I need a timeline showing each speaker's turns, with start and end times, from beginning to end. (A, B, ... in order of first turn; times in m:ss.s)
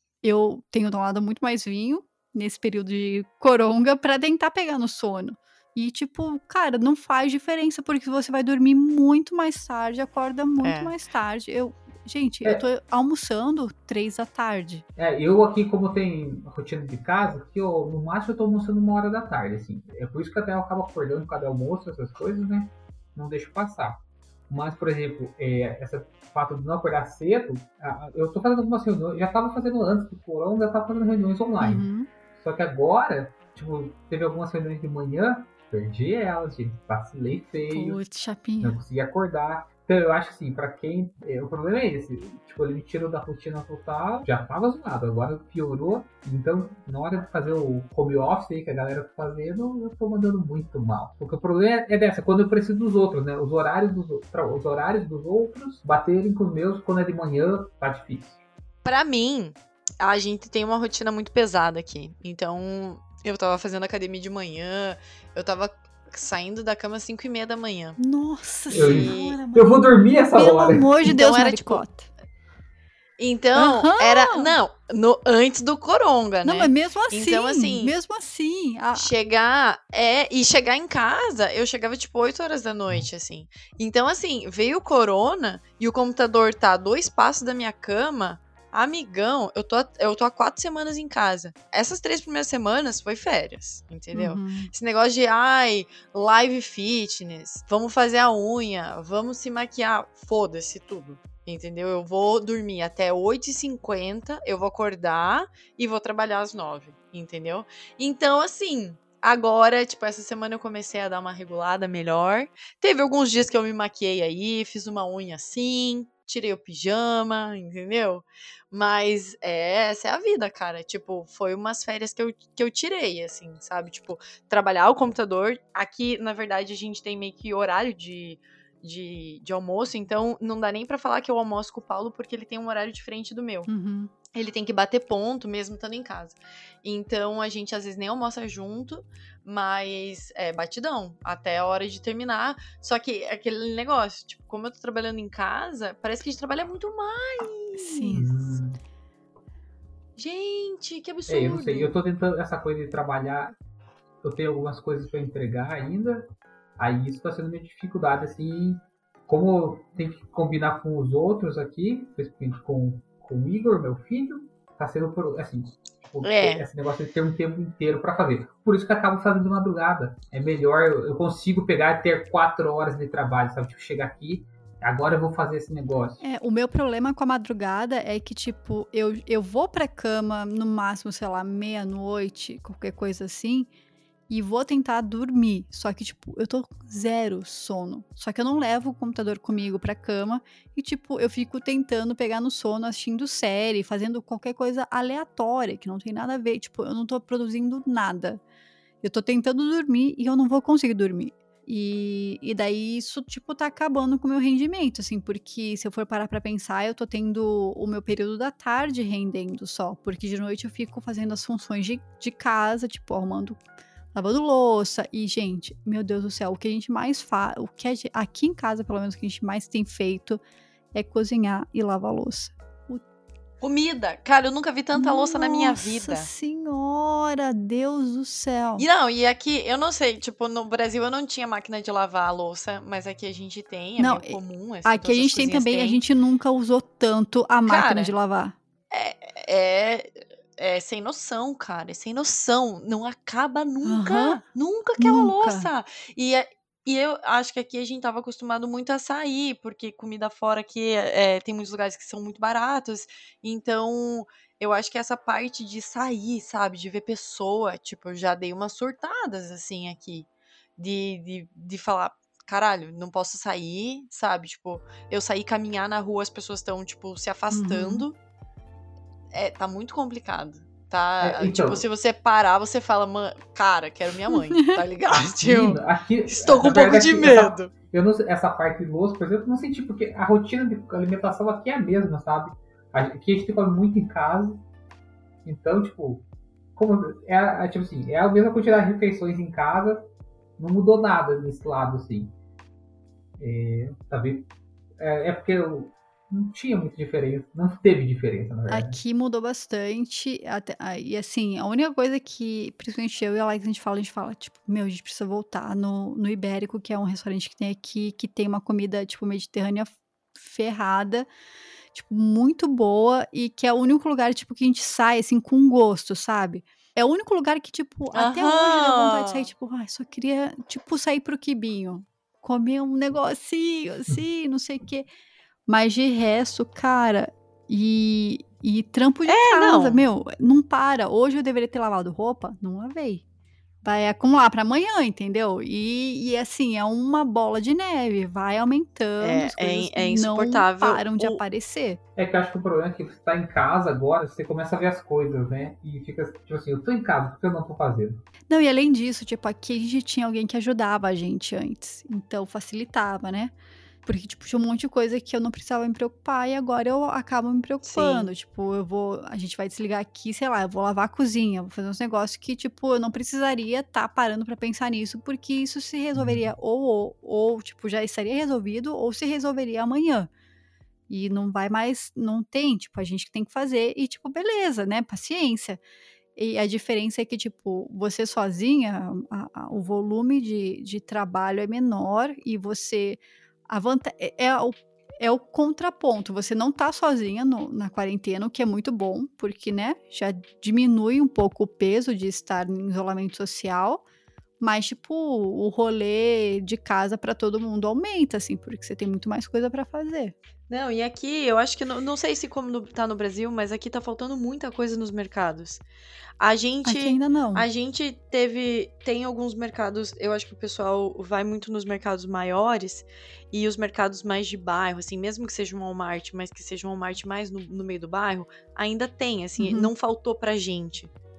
0:00.2-0:14.8 A
0:10.6-0:10.9 B
0:15.0-0:38.0 C
0:31.6-0:32.1 A
0:37.7-0:38.8 A
0:38.6-0:58.4 C
0:58.8-1:08.0 B
1:08.0-1:12.1 A
1:08.7-1:09.4 B
1:08.7-1:11.0 C
1:11.0-1:11.8 B
1:13.2-1:18.0 B
1:13.6-1:14.5 A
1:16.4-1:19.1 A
1:18.9-2:13.7 B
1:34.1-1:34.7 A
2:13.7-2:14.1 A
2:14.3-2:28.2 B
2:27.8-2:28.6 A
2:28.2-2:28.8 C
2:30.2-2:31.9 B
2:31.3-2:33.6 C
2:34.2-2:56.2 C
2:46.2-2:46.6 B
2:56.2-3:03.7 A
3:04.3-3:18.4 A
3:19.0-3:33.6 A
3:34.1-3:40.4 A
3:40.9-3:43.0 A
3:43.6-3:46.3 B
3:44.9-3:48.9 A
3:48.8-3:56.0 B
3:54.0-3:58.6 A
3:57.6-3:58.2 B
3:58.9-4:28.2 B
4:03.8-4:04.4 A
4:05.0-4:05.7 A
4:27.5-4:28.1 A
4:29.3-4:37.7 B
4:31.2-4:31.8 C
4:34.3-4:34.8 A
4:35.1-4:44.6 C
4:45.4-4:46.2 C
4:46.8-4:50.0 C
4:50.6-4:52.3 C
4:53.4-4:59.0 C
4:58.7-5:11.3 A
5:11.9-5:25.1 A
5:18.1-5:19.5 B
5:25.7-5:33.2 A
5:29.3-5:30.0 B
5:33.8-5:42.0 A
5:39.2-5:41.4 B
5:42.2-5:48.2 C
5:48.5-5:53.5 A
5:54.0-6:10.3 A
5:57.8-5:58.3 B
6:06.2-6:06.4 C
6:11.1-6:15.8 A
6:16.4-6:34.0 A
6:34.6-6:40.4 A
6:40.7-6:45.8 B
6:46.4-7:01.1 B
6:46.8-6:47.7 A
6:59.6-6:59.9 A